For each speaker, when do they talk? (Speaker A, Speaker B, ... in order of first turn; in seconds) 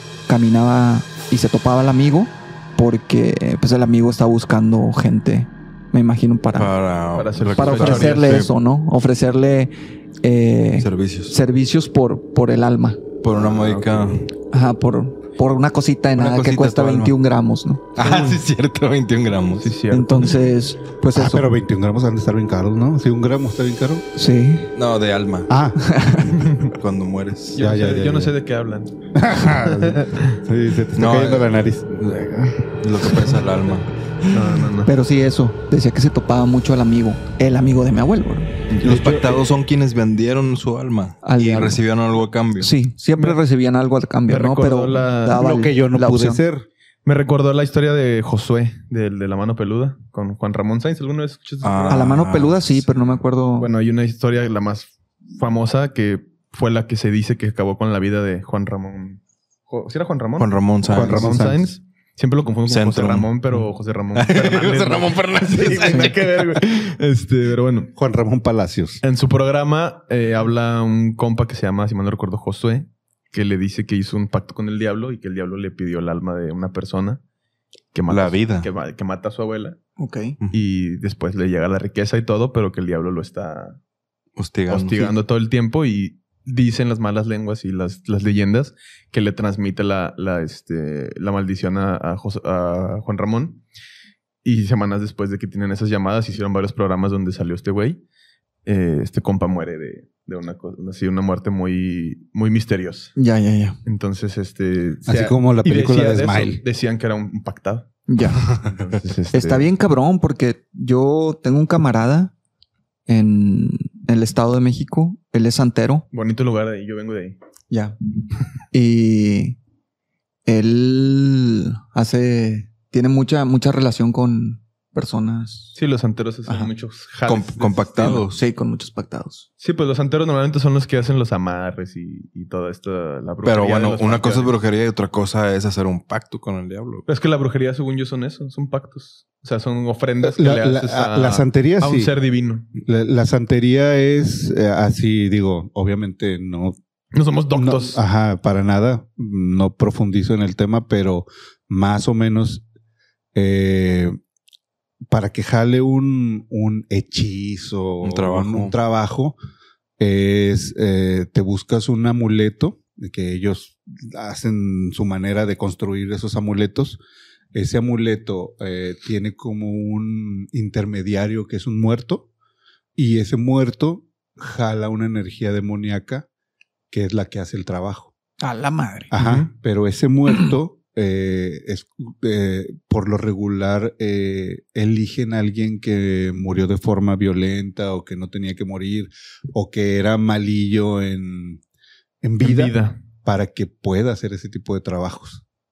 Speaker A: 0.3-6.7, 7.5-13.0, 14.5-17.8, 19.9-21.5, 24.1-24.7, 25.8-26.4, 34.8-38.5, 41.2-41.8, 42.6-46.4, 51.9-53.7, 80.0-80.4, 103.2-103.8, 108.1-108.4, 109.3-112.3, 113.1-116.0, 117.7-118.0, 118.7-119.6, 120.5-125.7, 128.0-129.4, 178.4-179.1
Speaker B: 6.5-8.5, 10.8-11.3, 13.2-14.3, 16.1-17.1, 17.9-19.7, 24.7-25.5, 26.6-27.6, 30.9-33.9, 38.8-42.7, 51.6-52.9, 60.4-61.3, 62.7-63.3, 64.1-66.3, 78.1-78.7, 84.4-85.1, 127.2-128.4, 133.4-137.1, 158.0-158.7
Speaker C: 7.1-8.4, 13.5-14.0, 18.0-18.4, 19.6-20.4, 26.4-26.7, 27.5-28.9, 29.6-30.4, 34.3-34.9, 44.3-45.4, 47.0-52.2, 53.6-67.9, 69.0-77.2, 77.9-79.8, 80.5-83.8, 84.7-93.6, 94.4-98.0, 98.7-103.2, 103.8-107.9, 108.5-109.7, 116.1-117.4, 125.7-128.2, 129.6-134.6, 137.1-142.7, 147.1-148.0, 179.2-179.5, 192.4-193.0
Speaker D: 21.1-24.0, 25.5-26.0, 27.6-28.3, 29.1-31.9, 38.8-39.3, 45.3-46.7, 60.9-61.7, 68.0-69.0, 105.0-106.6, 140.2-142.1, 142.8-146.8, 147.5-152.6, 153.3-154.2, 155.1-159.3, 160.0-167.0, 167.5-172.3, 172.9-176.2, 176.9-178.1, 179.1-191.6, 192.2-195.4